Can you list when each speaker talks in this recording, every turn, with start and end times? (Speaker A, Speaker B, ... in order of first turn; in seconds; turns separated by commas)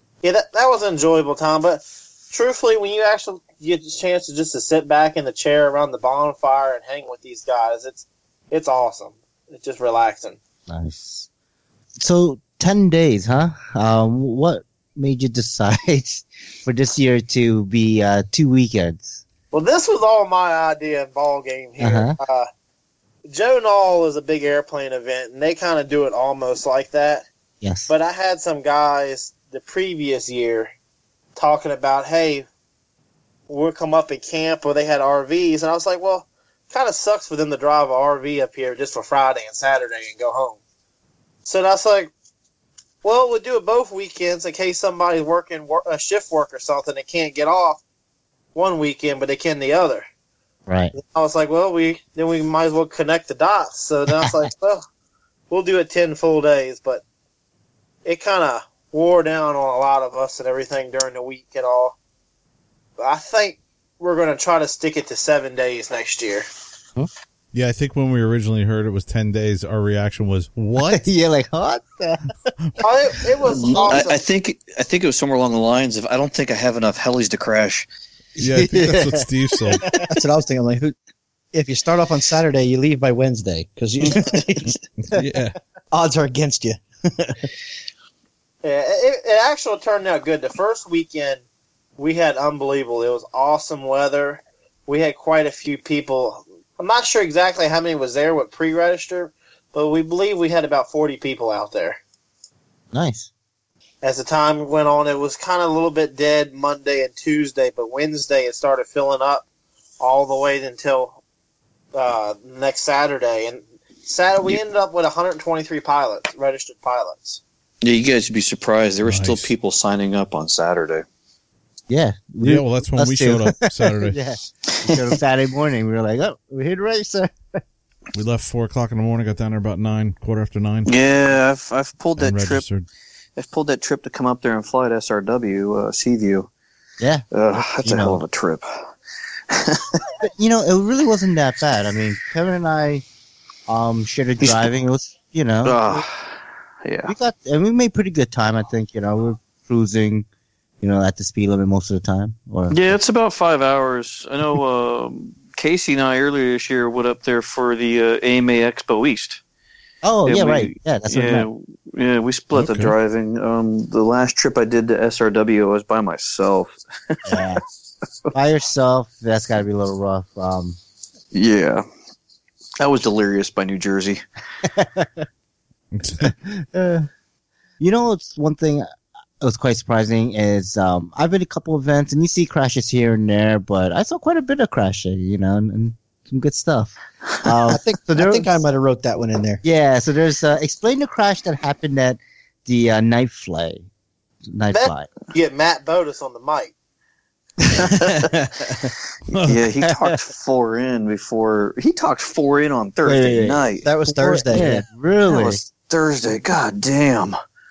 Speaker A: 0.2-10.4, Speaker B: 10.7-11.3, Speaker B: 12.0-19.2, Speaker A: 19.5-22.5, Speaker B: 21.8-22.2, Speaker A: 23.3-27.2, Speaker B: 27.6-27.9, Speaker A: 27.9-30.7, Speaker A: 31.3-32.5, Speaker A: 33.5-40.6, Speaker A: 41.4-42.1, Speaker A: 43.0-47.8, Speaker A: 48.5-50.0, Speaker B: 50.7-50.9, Speaker A: 50.9-54.8, Speaker A: 55.5-57.0, Speaker A: 58.0-62.0, Speaker A: 63.0-66.5, Speaker C: 67.5-71.1, Speaker B: 70.8-72.3, Speaker A: 72.8-74.2, Speaker D: 73.6-77.8, Speaker B: 78.3-80.0, Speaker C: 78.4-80.0, Speaker E: 80.1-80.9, Speaker E: 81.5-84.7, Speaker C: 85.0-85.6, Speaker E: 85.9-87.4, Speaker A: 88.6-91.4, Speaker A: 92.0-102.0, Speaker B: 102.9-103.3, Speaker A: 104.0-109.4, Speaker A: 110.0-111.2, Speaker A: 111.9-117.4, Speaker D: 117.8-121.0, Speaker C: 119.0-119.5, Speaker B: 121.9-127.6, Speaker C: 122.4-124.2, Speaker D: 124.9-125.1, Speaker C: 128.1-130.9, Speaker D: 130.9-132.7, Speaker C: 132.2-132.8, Speaker D: 133.4-136.5, Speaker B: 137.0-138.2, Speaker D: 137.3-138.7, Speaker D: 139.5-140.1, Speaker B: 140.2-143.0, Speaker B: 143.7-146.0, Speaker D: 144.4-144.7, Speaker D: 145.6-147.1, Speaker B: 147.1-150.3, Speaker B: 150.8-153.0, Speaker D: 152.7-159.4, Speaker B: 160.0-161.5, Speaker D: 160.2-167.4, Speaker C: 162.5-162.9, Speaker B: 167.2-167.6, Speaker B: 168.3-170.8, Speaker D: 171.3-171.8, Speaker D: 172.8-174.2, Speaker B: 174.6-175.2, Speaker C: 175.9-176.3, Speaker B: 176.2-177.1, Speaker B: 177.8-178.9, Speaker B: 179.4-188.5, Speaker E: 187.7-189.6, Speaker B: 189.6-193.9, Speaker B: 194.4-195.1, Speaker A: 194.7-196.7, Speaker B: 197.6-197.9, Speaker D: 197.8-198.9, Speaker C: 199.3-199.6, Speaker D: 199.4-203.8, Speaker B: 199.8-200.1, Speaker B: 203.0-205.6, Speaker E: 203.8-204.8, Speaker D: 205.3-207.3